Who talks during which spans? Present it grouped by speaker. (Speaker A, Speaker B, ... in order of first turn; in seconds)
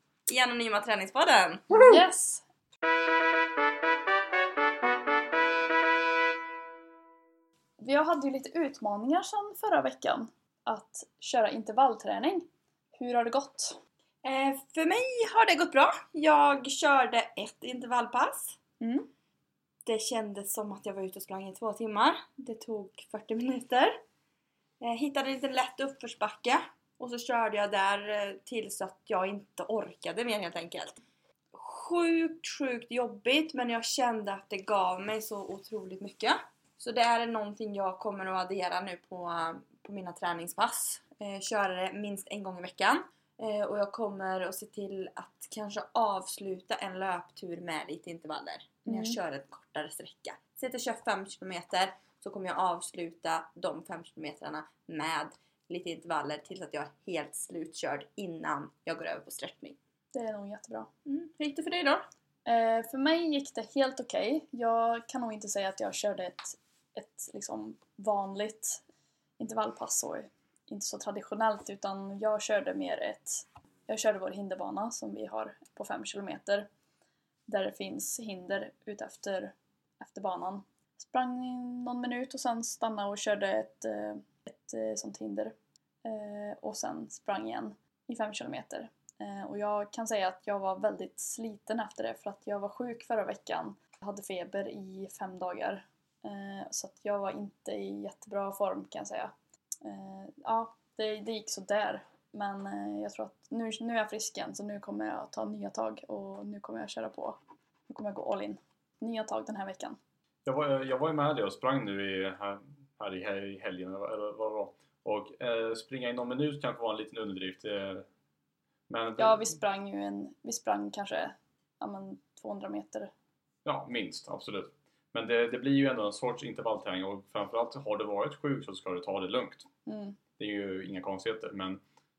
Speaker A: 0.3-1.6, 14.2-18.6, 19.9-24.0, 24.8-31.0, 31.5-59.8, 61.1-62.1
Speaker B: 1.7-2.0, 110.5-118.1, 118.9-119.5, 123.6-129.7, 130.4-131.8
Speaker C: 1.7-2.5, 7.8-13.8, 18.8-19.1, 48.9-49.2, 60.1-60.9, 62.5-68.8, 69.4-76.7, 77.5-99.3, 99.8-110.0, 119.2-123.1, 129.8-130.2